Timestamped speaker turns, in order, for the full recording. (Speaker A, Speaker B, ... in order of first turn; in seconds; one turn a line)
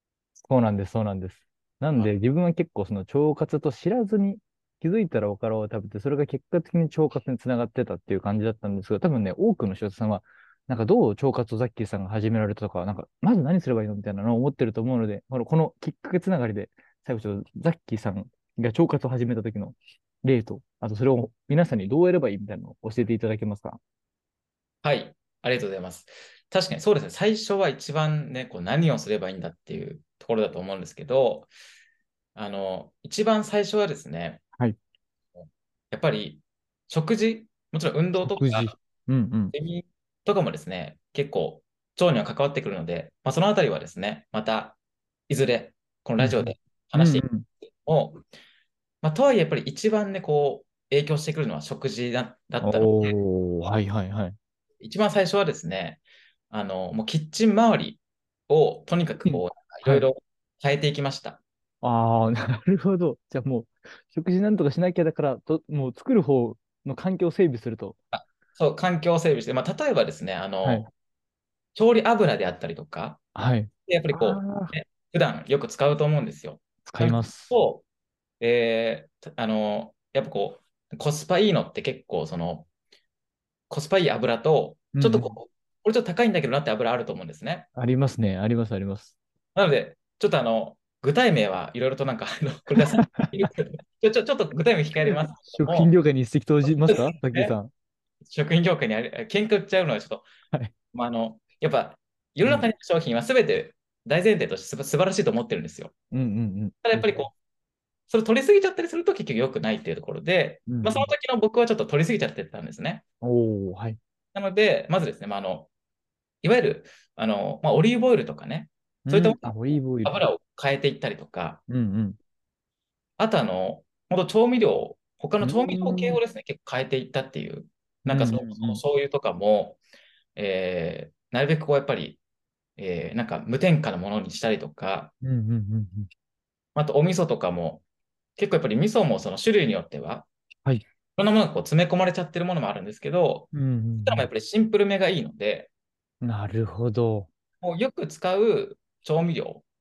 Speaker A: 0.4-23.8
Speaker B: 24.8-31.5
Speaker B: 32.4-34.4
Speaker B: 35.4-38.7
Speaker A: 38.2-39.5
Speaker B: 39.5-44.8
Speaker B: 45.3-47.2
Speaker A: 46.2-47.5
Speaker B: 47.9-48.2
Speaker B: 49.0-53.1
Speaker A: 52.6-54.4
Speaker B: 54.8-61.4
Speaker A: 59.2-60.1
Speaker A: 61.8-68.0
Speaker B: 68.1-70.9
Speaker A: 70.6-70.9
Speaker B: 71.8-73.2
Speaker A: 73.3-74.8
Speaker B: 73.9-77.8
Speaker A: 76.9-77.5
Speaker B: 78.4-82.7
Speaker B: 83.7-87.7
Speaker A: 85.0-85.3
Speaker A: 87.8-89.2
Speaker B: 89.5-95.9
Speaker A: 92.8-93.3
Speaker A: 95.0-97.7
Speaker B: 96.6-97.5
Speaker B: 98.2-100.3
Speaker B: 100.9-105.9
Speaker A: 102.4-102.7
Speaker A: 106.1-107.2
Speaker B: 106.8-107.3
Speaker B: 108.1-113.0
Speaker A: 110.7-111.1
Speaker A: 113.2-114.0
Speaker B: 114.3-115.7
Speaker B: 116.4-121.6
Speaker A: 119.1-120.2
Speaker A: 121.7-122.2
Speaker B: 123.2-129.8
Speaker A: 125.4-126.2
Speaker A: 128.1-128.8
Speaker B: 130.4-132.2
Speaker B: 132.8-135.1
Speaker A: 135.2-136.1
Speaker B: 136.8-137.8
Speaker B: 138.4-140.3
Speaker B: 141.2-143.5
Speaker A: 143.5-144.3
Speaker B: 144.0-145.7
Speaker A: 146.2-147.3
Speaker B: 147.6-149.6